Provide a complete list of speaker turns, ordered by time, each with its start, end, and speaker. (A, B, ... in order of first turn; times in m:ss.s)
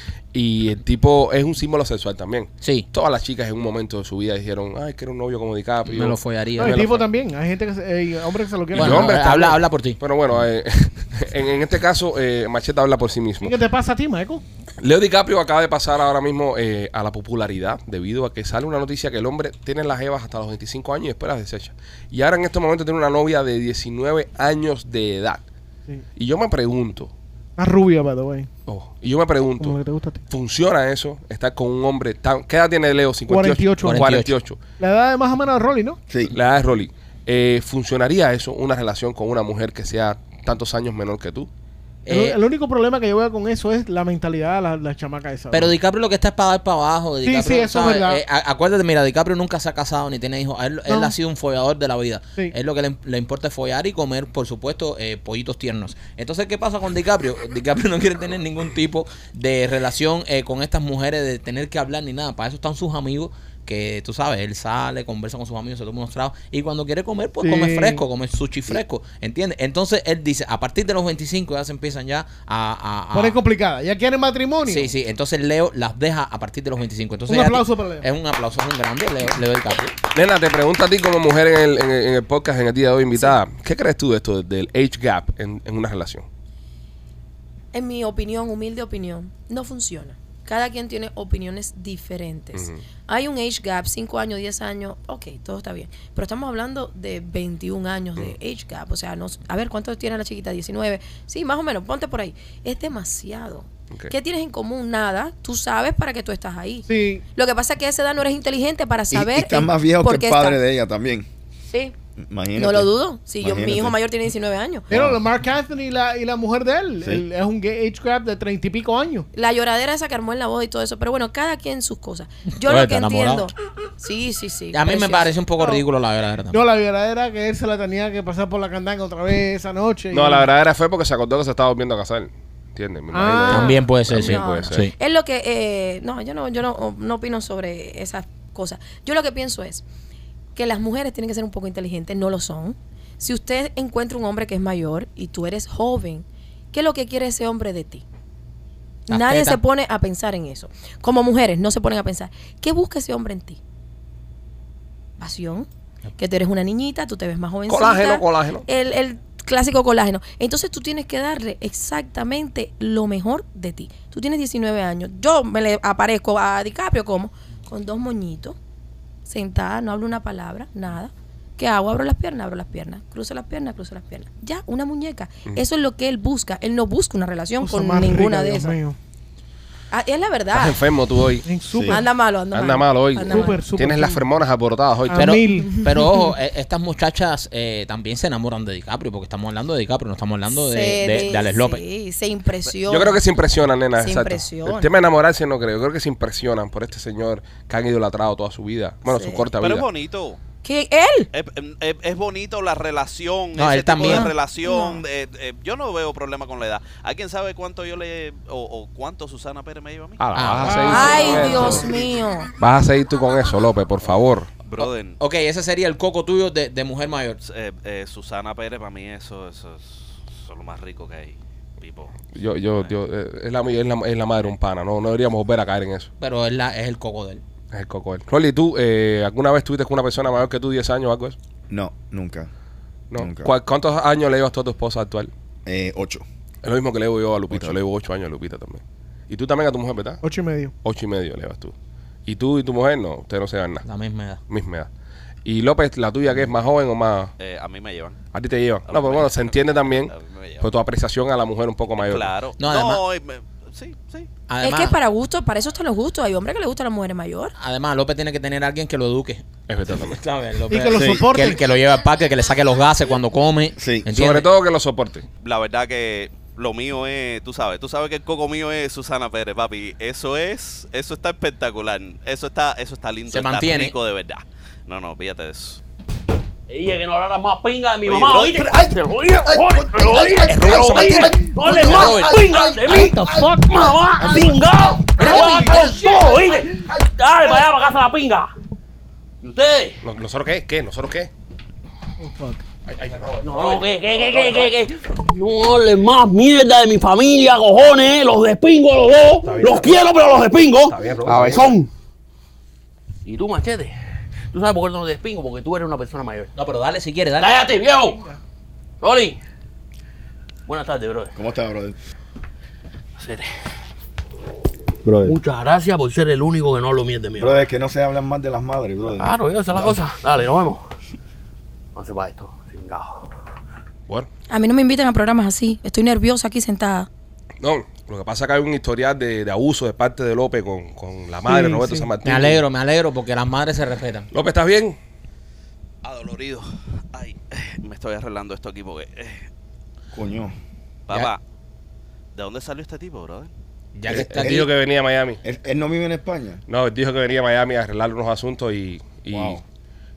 0:00.3-0:07.1 A
0:02.6-0:02.9 B
0:05.8-0:06.8 B
0:06.6-0:09.2 C
0:08.7-0:13.6 A
0:08.7-0:10.0 B
0:13.4-0:14.4 C
0:14.8-0:25.4 A
0:26.2-0:27.1 A
0:27.6-0:28.5 C
0:28.7-0:34.6 A
0:29.6-0:30.2 C
0:33.3-0:34.1 C
0:33.8-0:34.3 B
0:34.8-0:36.0 C
0:36.3-0:41.5 A
0:42.1-0:42.4 B
0:42.1-0:45.7 C
0:45.5-1:13.4 B
0:47.2-0:48.2 C
0:50.9-0:51.2 C
1:07.4-1:08.0 C
1:13.1-1:14.9 C
1:14.7-1:20.0 B
1:17.3-1:18.1 C
1:20.1-1:26.3 A
1:27.7-1:50.6 D
1:32.6-1:32.8 A
1:46.9-1:47.2 C
1:49.1-1:51.3 E
1:52.2-1:54.0 E
1:52.6-1:54.9 D
1:54.9-1:59.3 C
1:54.9-1:55.2 E
1:59.3-2:05.4 D
2:02.6-2:03.5 B
2:04.7-2:06.6 B
2:06.5-2:10.5 C
2:10.1-2:14.9 A
2:13.1-2:13.9 C
2:13.5-2:14.9 B
2:14.2-2:19.8 D
2:20.6-2:28.0 D
2:29.1-2:33.6 D
2:29.1-2:29.6 B
2:35.2-2:48.6 D
2:37.7-2:38.7 A
2:49.3-2:58.8 D
2:57.6-2:59.0 C
2:59.9-3:00.8 D
3:00.5-3:01.5 A
3:01.4-3:02.0 C
3:01.7-3:02.0 E
3:01.9-3:03.6 D
3:02.5-3:05.4 A
3:03.3-3:04.2 C
3:05.1-3:06.1 C
3:05.2-3:11.8 B
3:05.6-3:06.3 D
3:10.5-3:13.2 D
3:12.9-3:19.9 A
3:14.0-3:14.9 D
3:19.1-3:19.5 D
3:19.6-3:20.4 F
3:20.6-3:21.3 D
3:21.3-3:30.2 F
3:23.6-3:24.3 B
3:24.0-3:25.0 D
3:30.2-3:31.9 A
3:30.4-3:31.8 B
3:30.6-3:31.9 C
3:30.8-3:32.5 D
3:32.6-3:34.5 A
3:34.6-3:35.2 F
3:34.8-3:37.4 B
3:37.4-3:42.1 F
3:42.3-3:46.1 A
3:46.2-3:47.4 B
3:47.7-3:51.4 A
3:51.7-3:52.5 E
3:53.1-3:55.3 A
3:53.2-3:53.5 E
3:55.7-3:56.2 E
3:56.6-4:00.2 A
3:57.5-3:57.8 E
4:00.2-4:00.7 C
4:00.8-4:01.8 A
4:02.3-4:03.8 A
4:03.8-4:04.4 B
4:04.5-4:04.9 A
4:05.4-4:07.3 A
4:07.4-4:08.2 F
4:08.3-4:12.4 A
4:08.9-4:10.7 F
4:12.0-4:14.3 F
4:12.6-4:13.0 B
4:14.5-4:15.0 B
4:14.6-4:17.5 D
4:17.6-4:24.5 B
4:19.7-4:20.2 A
4:20.7-4:21.6 C
4:20.9-4:21.3 E
4:23.8-4:24.1 E
4:24.1-4:25.3 A
4:25.4-4:35.8 F
4:33.3-4:34.0 B
4:36.7-4:48.5 G
4:40.5-4:42.3 A
4:40.5-4:42.5 B
4:42.7-4:44.5 C
4:45.2-4:46.4 C
4:49.4-4:50.0 G
4:50.0-4:51.3 A
4:52.2-4:52.6 C
4:52.9-4:53.8 A
4:53.4-5:01.9 G
4:59.4-5:00.1 A
5:00.8-5:01.8 A
5:01.3-5:01.6 E
5:03.2-5:03.9 G
5:04.5-5:06.5 G
5:06.6-5:07.6 B
5:07.4-5:08.3 G
5:08.0-5:08.4 C
5:09.0-5:09.4 G
5:10.7-5:11.4 G
5:11.4-5:12.0 E
5:13.2-5:13.5 G
5:15.0-5:15.4 E
5:15.2-5:17.7 G
5:17.4-5:20.0 E
5:19.2-5:20.8 G
5:22.0-5:23.3 G
5:24.5-5:27.1 D
5:27.6-5:32.6 A
5:31.5-5:32.1 C
5:32.2-5:34.3 B
5:34.3-5:35.0 A
5:36.0-5:39.5 F
5:40.1-5:40.5 E
5:41.1-5:41.4 F
5:42.4-5:43.5 F
5:44.0-5:44.6 B
5:44.1-5:44.7 E
5:44.1-5:45.4 A
5:45.4-5:46.6 E
5:46.7-5:49.6 A
5:49.3-5:49.6 E